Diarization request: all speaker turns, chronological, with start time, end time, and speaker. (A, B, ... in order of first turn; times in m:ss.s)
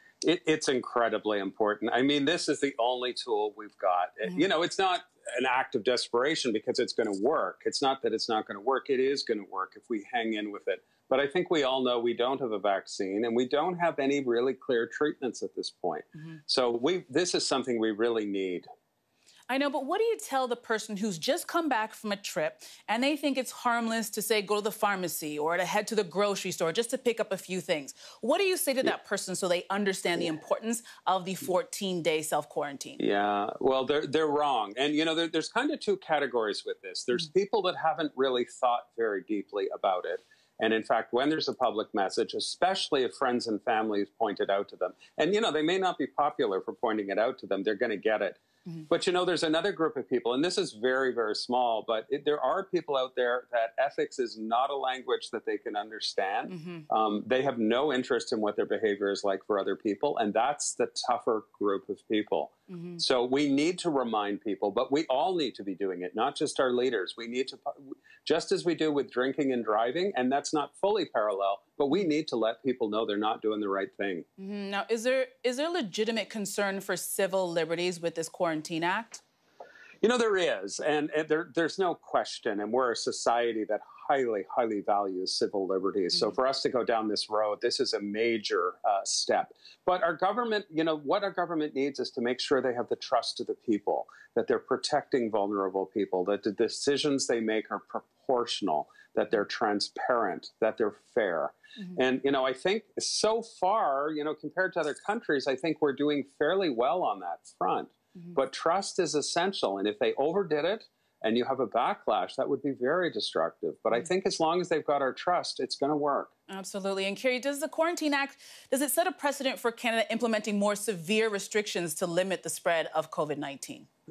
0:00.2-0:18.7 A
0:19.5-0:33.0 B
0:33.0-1:14.3 A
0:56.5-0:56.8 B
1:14.4-1:19.2 B
1:20.0-1:56.3 A
1:56.5-2:03.9 B